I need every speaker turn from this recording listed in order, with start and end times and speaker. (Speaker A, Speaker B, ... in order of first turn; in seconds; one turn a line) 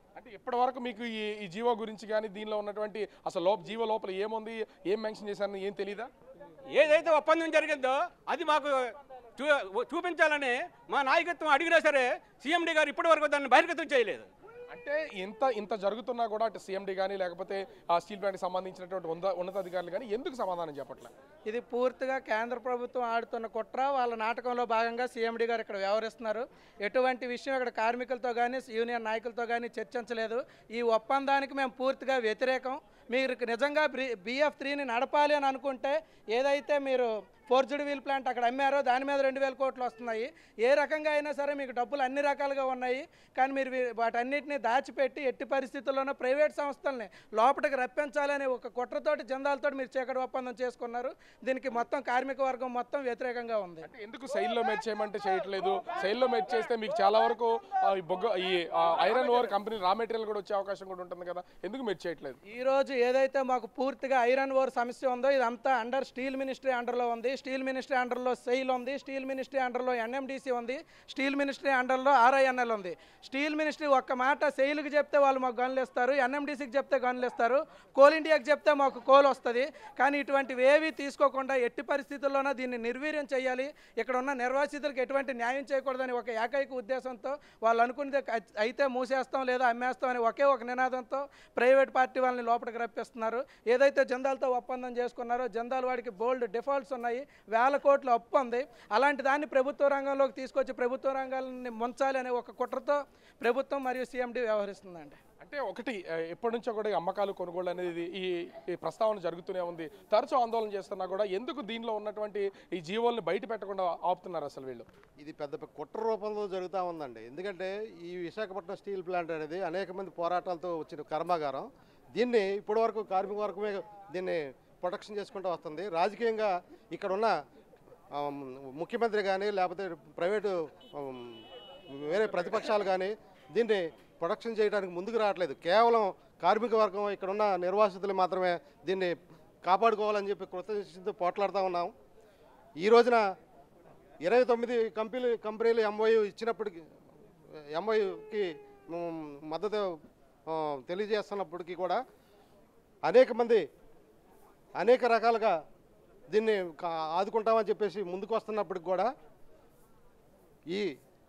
Speaker A: 0.2-6.1
Speaker B: 6.7-8.8
Speaker B: 9.4-14.3
Speaker A: 14.7-21.1
Speaker C: 21.5-53.9
Speaker A: 53.8-62.4
Speaker C: 62.5-105.2
Speaker A: 105.4-114.9
Speaker D: 115.2-127.3
Speaker D: 128.2-131.4
Speaker D: 131.9-139.1
Speaker D: 139.7-141.9
Speaker D: 142.8-143.2
Speaker D: 144.2-146.8
Speaker D: 147.7-149.9
Speaker D: 150.5-152.0
Speaker D: 153.1-153.6
Speaker D: 154.8-155.6
Speaker D: 156.3-159.1